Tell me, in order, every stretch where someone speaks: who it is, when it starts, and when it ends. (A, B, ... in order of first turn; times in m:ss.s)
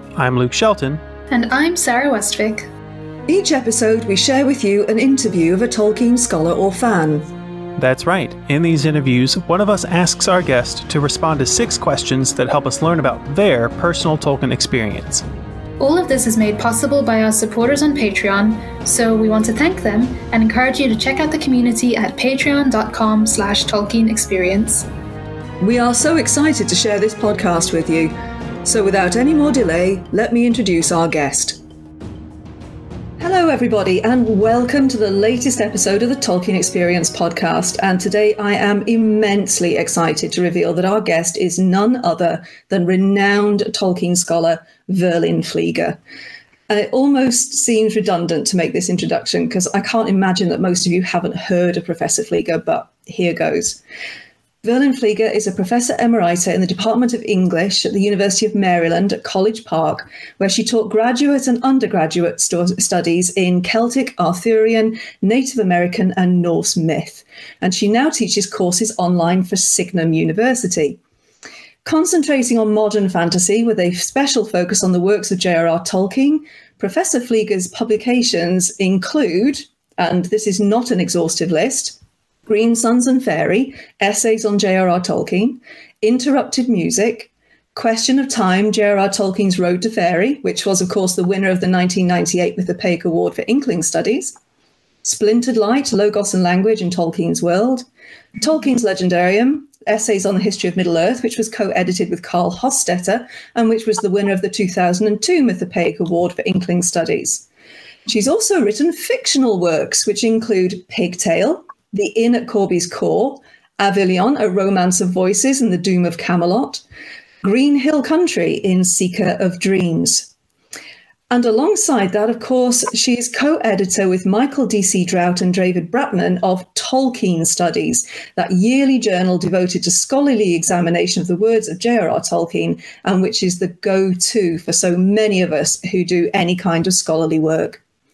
0:00.2-0:01.0 A
0:01.3-0:02.7 B
0:03.3-0:07.3 C
0:07.8-0:15.2 A
0:15.8-0:24.9 B
0:25.6-0:31.6 C
0:33.2-0:46.0 C
0:46.7-0:53.8 C
0:54.6-1:11.0 C
1:11.8-1:34.4 C
1:35.0-1:37.9 C
1:38.4-1:47.5 C
1:48.1-1:56.8 C
1:57.4-2:00.3 C
2:01.3-2:17.8 C